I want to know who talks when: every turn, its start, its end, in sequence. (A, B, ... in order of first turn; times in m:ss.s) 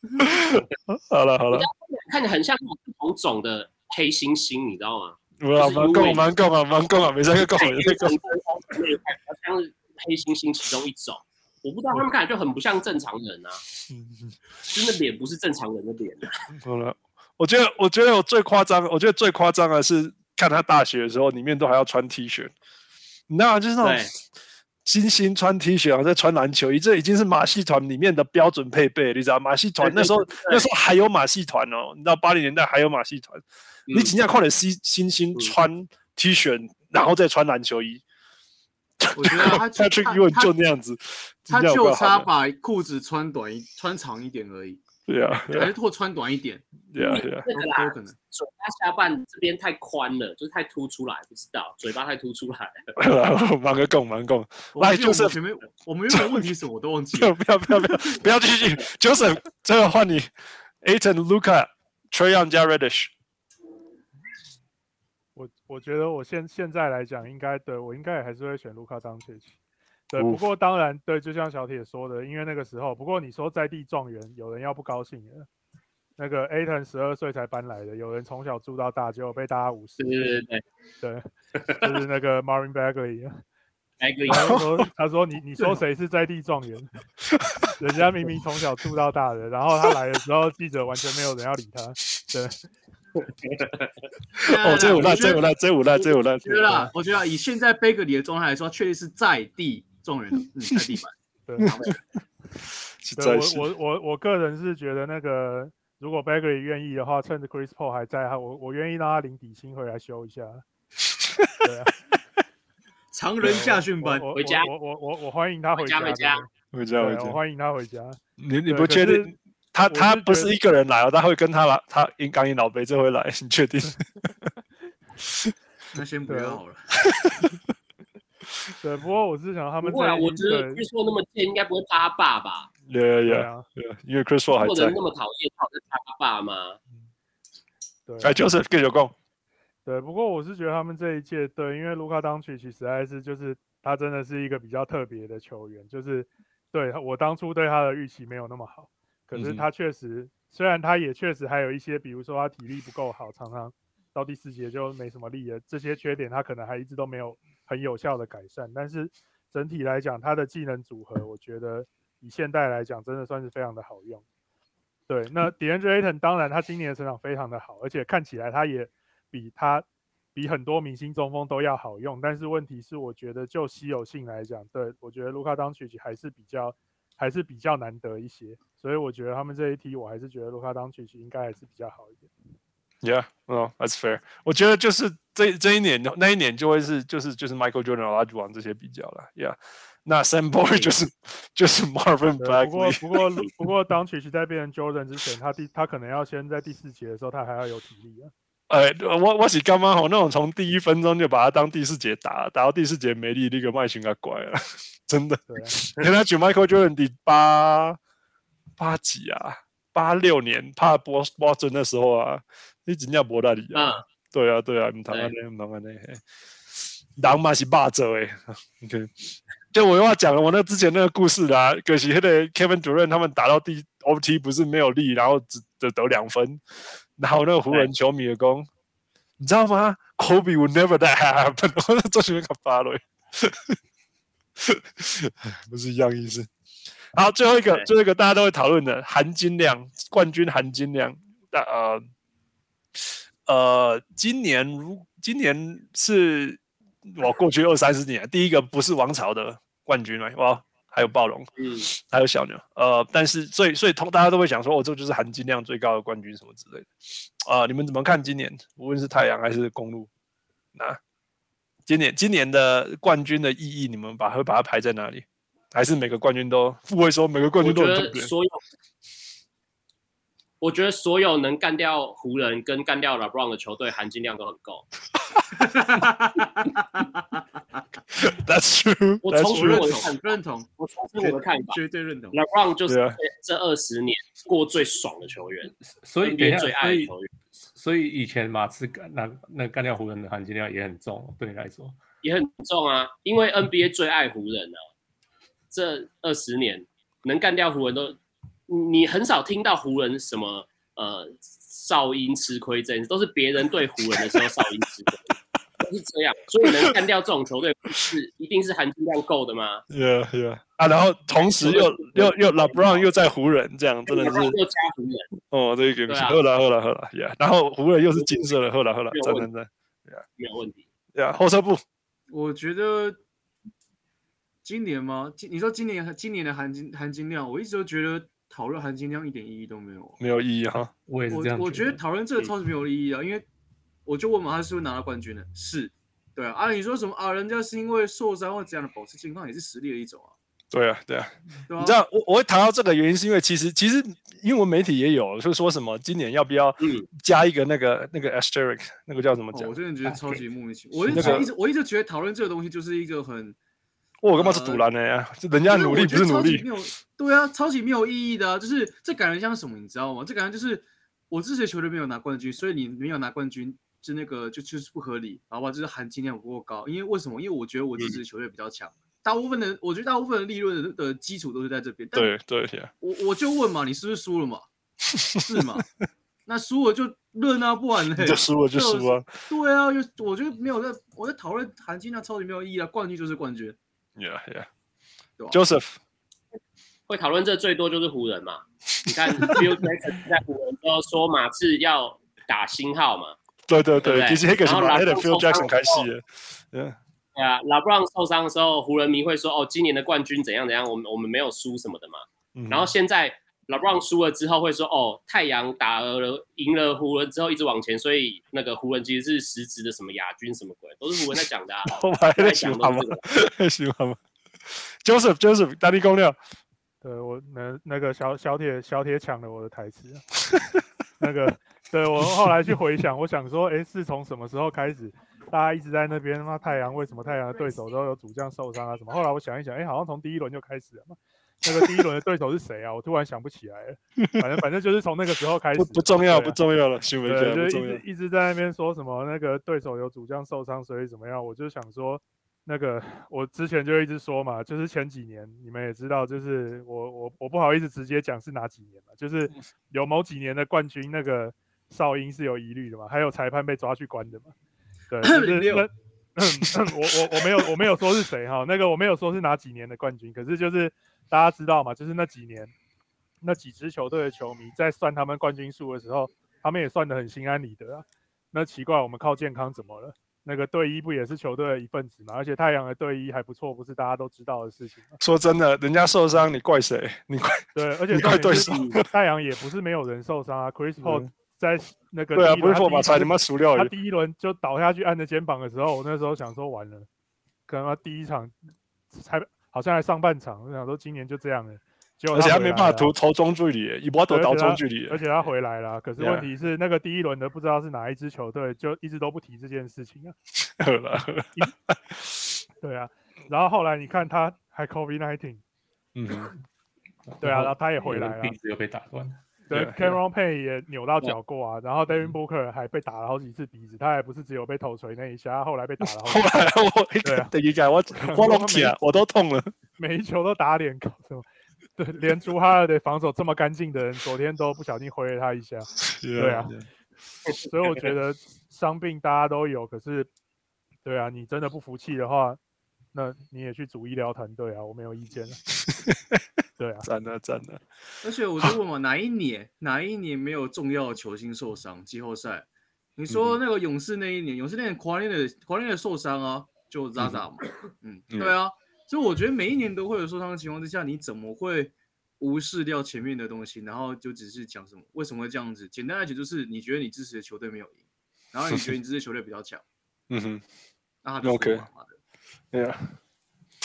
0:00.2-0:01.7 A
0:01.5-0:06.3 B
0:05.4-0:08.2 A
0:07.4-0:13.6 B
0:13.9-0:14.3 A
0:14.6-0:16.4 B
0:16.6-0:22.5 A
0:23.3-0:24.1 A
0:23.8-0:24.1 B
0:24.8-0:38.0 A
0:29.8-0:30.6 B
0:33.9-0:34.1 B
0:39.0-0:42.3 A
0:39.1-0:40.5 C
0:41.5-0:44.8 C
0:45.1-0:45.8 A
0:45.5-0:46.6 C
0:46.9-0:47.5 A
0:47.0-0:52.9 B
0:47.5-0:48.1 C
0:53.0-0:55.4 A
0:54.7-0:58.2 C
0:56.1-0:56.5 A
0:57.1-1:00.3 A
1:00.8-1:03.1 A
1:05.4-1:09.6 D
1:10.1-1:15.5 D
1:10.2-1:10.4 A
1:16.2-1:20.1 D
1:20.0-1:20.6 B
1:21.0-1:23.4 D
1:21.6-1:21.9 B
1:24.0-1:24.6 B
1:24.3-1:26.9 D
1:24.3-1:24.6 A
1:27.4-1:27.7 A
1:27.8-1:32.6 D
1:33.2-1:34.0 B
1:34.4-1:35.4 C
1:34.4-1:36.9 A
1:36.0-1:42.0 C
1:41.6-1:41.9 A
1:43.0-1:43.7 A
1:43.2-1:50.6 D
1:51.6-1:51.9 D
1:53.1-1:54.3 C
1:53.4-1:59.3 D
1:54.3-1:54.7 B
1:55.8-1:56.4 B
1:56.7-1:57.4 A
1:58.4-2:04.1 A
1:59.9-2:00.5 D
2:05.9-2:06.9 C
2:06.3-2:06.6 D
2:07.2-2:07.5 A
2:08.8-2:10.8 D
2:09.8-2:12.7 B
2:12.9-2:15.0 A
2:13.2-2:13.7 D
2:14.5-2:16.8 B
2:18.1-2:18.4 D
2:18.2-2:19.1 A
2:19.9-2:44.2 D
2:29.3-2:29.7 A
2:45.1-3:02.3 D
3:03.0-3:13.5 A
3:12.4-3:18.3 D
3:18.7-3:28.0 A
3:25.5-3:25.8 D
3:28.8-3:46.6 A
3:33.7-3:34.0 B
3:47.2-3:48.7 A
3:49.4-3:53.8 A
3:54.6-3:56.5 A
3:57.1-4:02.0 A
4:03.0-4:20.1 A
4:11.6-4:11.9 B
4:20.8-4:21.0 A
4:21.9-4:28.3 A
4:27.6-4:28.6 B
4:30.6-4:34.9 B
4:35.5-4:37.4 C
4:38.2-4:40.0 A
4:39.2-4:41.8 B
4:39.5-4:40.7 C
4:41.2-4:42.4 C
4:42.3-4:47.3 B
4:42.9-4:43.2 A
4:45.9-4:52.0 E
4:52.2-4:54.8 B
4:55.7-5:09.8 B
5:06.7-5:06.9 A
5:09.9-5:14.6 A
5:11.4-5:13.1 B
5:14.1-5:15.3 B
5:15.5-5:20.2 A
5:16.1-5:16.4 B
5:19.1-5:19.5 B
5:20.4-5:20.8 B
5:21.2-5:21.8 A
5:22.3-5:23.2 C
5:24.6-5:30.2 C
5:30.2-5:30.9 A
5:31.1-5:32.5 E
5:31.3-5:33.5 C
5:34.1-5:40.3 C
5:40.7-5:49.8 A
5:41.7-5:42.0 C
5:46.8-5:47.1 B
5:49.5-5:53.6 C
5:51.1-5:51.5 A
5:54.2-5:56.7 A
5:54.4-5:54.8 C
5:55.7-6:12.3 C
6:12.1-6:12.9 A
6:13.0-6:14.7 C
6:15.4-6:15.9 C
6:16.5-6:23.8 C
6:18.2-6:19.3 A
6:24.2-6:24.7 A
6:25.4-6:25.6 C
6:25.5-6:26.0 A
6:27.1-6:33.4 B
6:29.3-6:29.6 A
6:33.7-6:37.0 A
6:34.0-6:36.1 B
6:37.4-6:53.2 B
6:42.6-6:42.9 A
6:51.9-6:54.2 A
6:54.7-6:56.4 A
6:57.0-7:00.2 D
7:01.2-7:16.6 D
7:15.8-7:18.0 A
7:17.2-7:34.5 D
7:35.1-7:42.7 D
7:35.2-7:35.9 C
7:43.4-7:55.2 D
7:55.2-7:59.0 A
7:57.8-8:07.1 D
8:01.0-8:01.3 A
8:02.3-8:03.9 A
8:07.7-8:08.5 D
8:09.1-8:13.1 D
8:12.3-8:15.2 A
8:14.3-8:20.4 D
8:16.2-8:16.5 A
8:20.7-8:22.6 A
8:22.8-8:25.6 D
8:26.2-8:26.5 A
8:27.3-8:29.4 E
8:27.4-8:28.6 D
8:29.7-8:36.6 D
8:29.7-8:30.2 A
8:36.0-8:39.7 A
8:37.2-8:37.5 D
8:38.1-8:39.0 D
8:40.0-8:41.4 D
8:42.0-8:46.7 D
8:46.0-8:46.8 A
8:47.7-8:50.3 D
8:51.0-8:52.6 D
8:53.1-8:55.6 D
8:56.8-8:57.1 D
8:57.0-8:57.8 A
8:58.2-9:02.7 C
9:03.2-9:18.0 C
9:03.3-9:03.6 A
9:18.5-9:19.8 C
9:20.3-9:20.6 A
9:21.2-9:22.2 C
9:21.4-9:21.9 A
9:22.7-9:23.1 A